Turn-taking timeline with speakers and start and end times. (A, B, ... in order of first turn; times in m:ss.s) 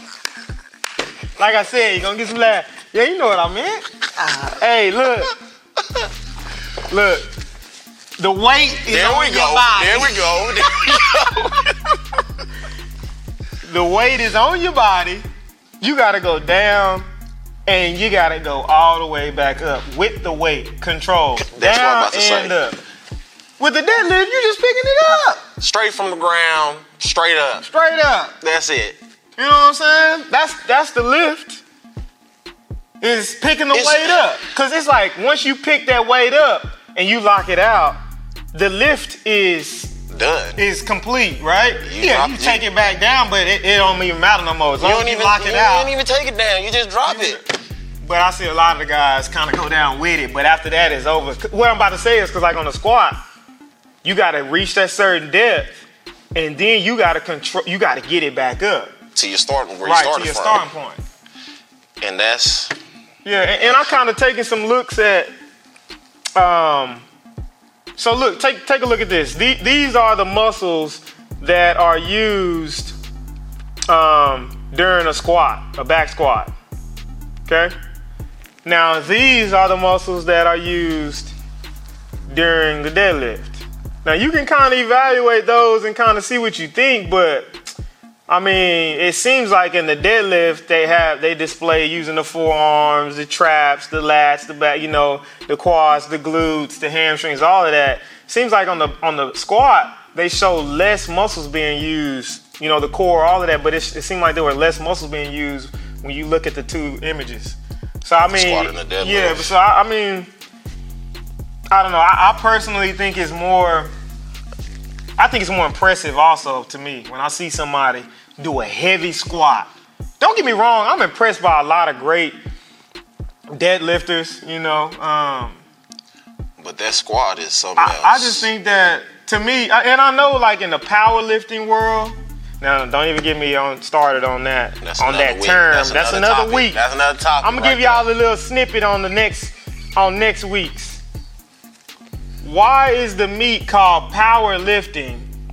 0:01.4-0:05.4 A
0:06.9-0:07.3 A
0:08.2-0:10.5 A
0:08.9-0:11.7 B
0:13.6-0:15.2 A
0:15.8-0:17.1 A
0:17.7-0:22.8 A
0:21.4-0:22.6 B
0:23.6-0:25.4 A
0:25.6-0:27.7 B
0:27.6-0:28.4 A
0:28.4-0:29.0 B
0:29.4-0:31.6 A
0:33.0-0:38.0 A
0:33.7-0:34.3 B
0:38.5-0:39.9 A
0:40.1-0:40.6 B
0:40.6-0:45.9 A
0:41.8-0:42.7 B
0:44.8-0:47.4 B
0:47.0-0:47.4 A
0:48.0-0:53.2 A
0:54.0-0:55.8 A
0:56.4-0:58.9 A
0:59.2-1:00.6 B
0:59.8-1:01.0 A
1:02.0-1:02.7 B
1:03.2-1:05.3 A
1:06.4-1:07.0 A
1:08.0-1:13.0 A
1:13.9-1:16.5 A
1:17.5-1:17.7 A
1:18.6-1:21.3 A
1:22.3-1:27.5 A
1:28.3-1:50.3 A
1:48.1-1:49.6 B
1:51.7-1:53.9 A
1:55.2-2:02.4 A
2:03.5-2:05.6 A
2:06.6-2:08.5 B
2:07.8-2:16.8 A
2:14.8-2:18.0 B
2:17.4-2:21.0 A
2:22.4-2:25.3 A